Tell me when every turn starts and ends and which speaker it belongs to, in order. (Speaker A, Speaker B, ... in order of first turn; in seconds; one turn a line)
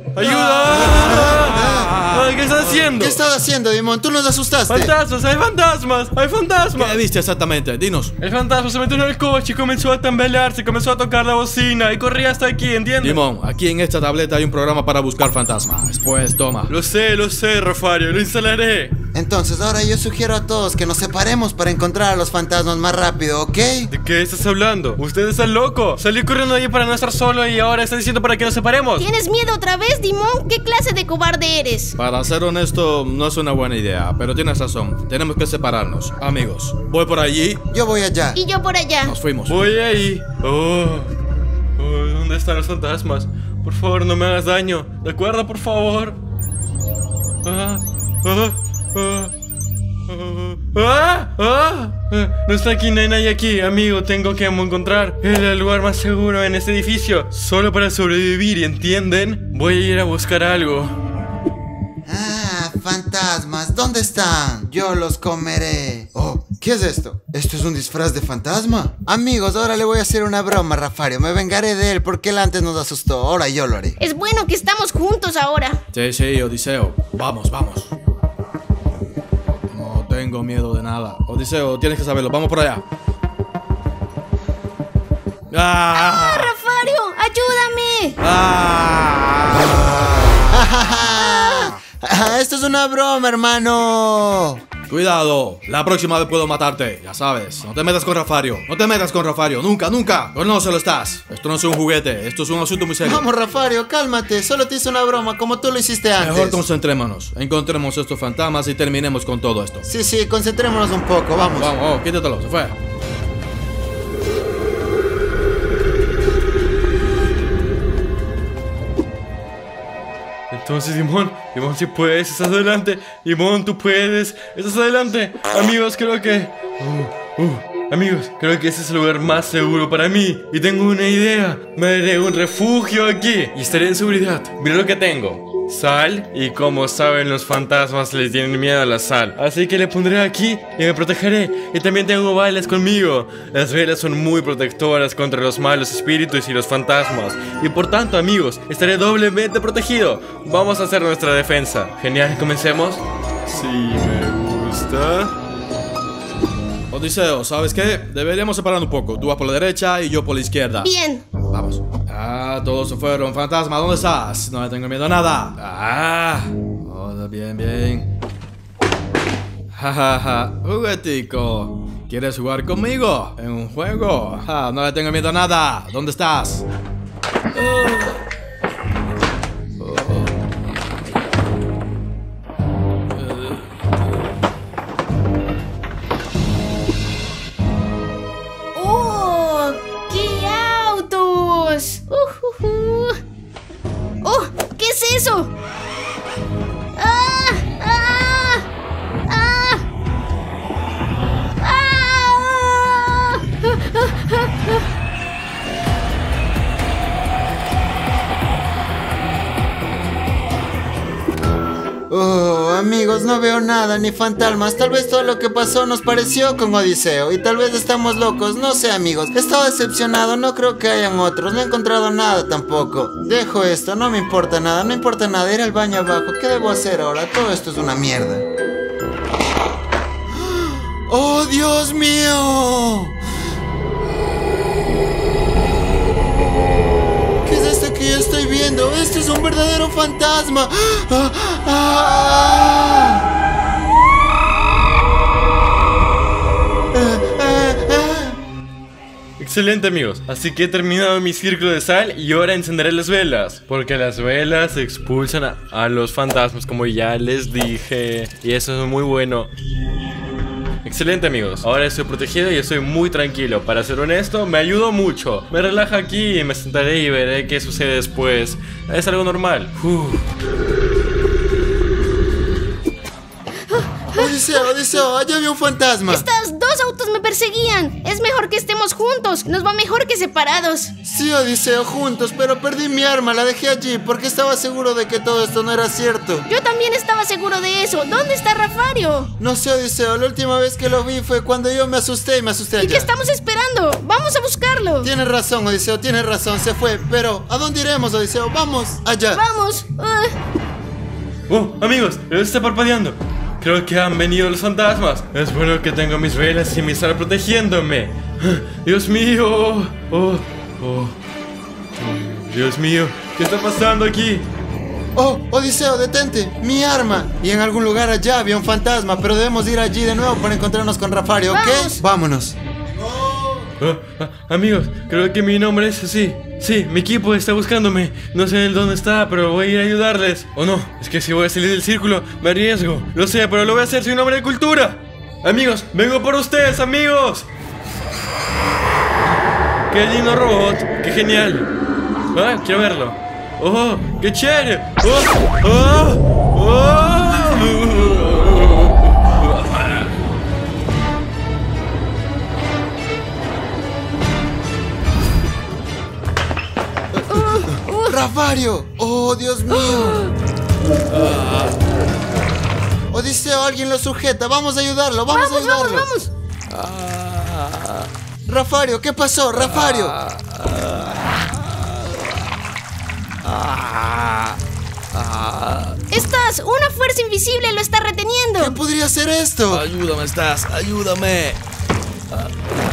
Speaker A: 0.1-3.2
Speaker B: 0.2-2.0
Speaker C: 0.3-2.3
Speaker B: 2.9-4.9
Speaker A: 4.7-7.0
Speaker C: 6.8-8.1
Speaker A: 8.2-13.2
Speaker C: 13.0-16.7
Speaker A: 16.7-18.9
Speaker B: 19.1-23.9
Speaker A: 23.9-29.1
Speaker D: 29.0-31.9
Speaker C: 32.0-37.6
Speaker B: 37.7-38.4
Speaker D: 38.4-39.2
Speaker C: 39.0-39.7
Speaker A: 39.5-41.1
Speaker A: 41.8-46.2
Speaker A: 47.4-49.3
Speaker A: 50.1-60.9
Speaker B: 62.1-74.0
Speaker D: 74.0-75.8
Speaker C: 75.9-77.9
Speaker C: 79.7-82.8
Speaker C: 85.5-86.5
Speaker D: 86.0-88.2
Speaker C: 88.2-90.4
Speaker B: 90.5-94.6
Speaker D: 91.2-91.7
Speaker C: 94.9-103.2
Speaker B: 103.0-106.6
Speaker C: 106.2-109.8
Speaker B: 109.8-111.7
Speaker C: 111.5-112.8
Speaker A: 120.5-155.3
Speaker C: 156.9-160.9
Speaker D: 160.8-161.2
Speaker C: 161.5-168.1
Speaker C: 169.7-176.6
Speaker C: 177.5-178.2
Speaker C: 179.8-180.3
Speaker C: 183.1-183.7
Speaker D: 188.8-193.2
Speaker D: 194.2-195.5
Speaker D: 197.0-198.6
Speaker D: 199.3-199.8
Speaker D: 201.6-204.8
Speaker B: 212.1-228.4
Speaker B: 230.3-233.2
Speaker B: 237.4-243.2
Speaker B: 246.9-248.4
Speaker A: 249.4-259.5
Speaker A: 260.9-270.2
Speaker D: 273.7-274.2
Speaker B: 274.1-276.3
Speaker D: 276.1-280.9
Speaker B: 281.0-286.5
Speaker D: 286.5-289.3
Speaker B: 289.4-293.1
Speaker D: 292.8-295.1
Speaker B: 295.0-299.4
Speaker D: 299.3-300.4
Speaker A: 301.5-311.1
Speaker A: 312.0-314.4
Speaker B: 315.2-322.6
Speaker D: 321.5-322.0
Speaker A: 323.8-337.5
Speaker A: 339.9-341.7
Speaker A: 342.3-348.9
Speaker D: 357.3-358.1
Speaker B: 357.3-360.2
Speaker C: 361.1-361.7
Speaker B: 363.1-366.1
Speaker D: 365.3-366.3
Speaker C: 366.7-368.1
Speaker B: 368.5-370.2
Speaker C: 369.6-372.3
Speaker C: 373.4-374.6
Speaker C: 375.1-376.0
Speaker D: 376.1-378.8
Speaker B: 378.6-379.9
Speaker C: 379.7-381.6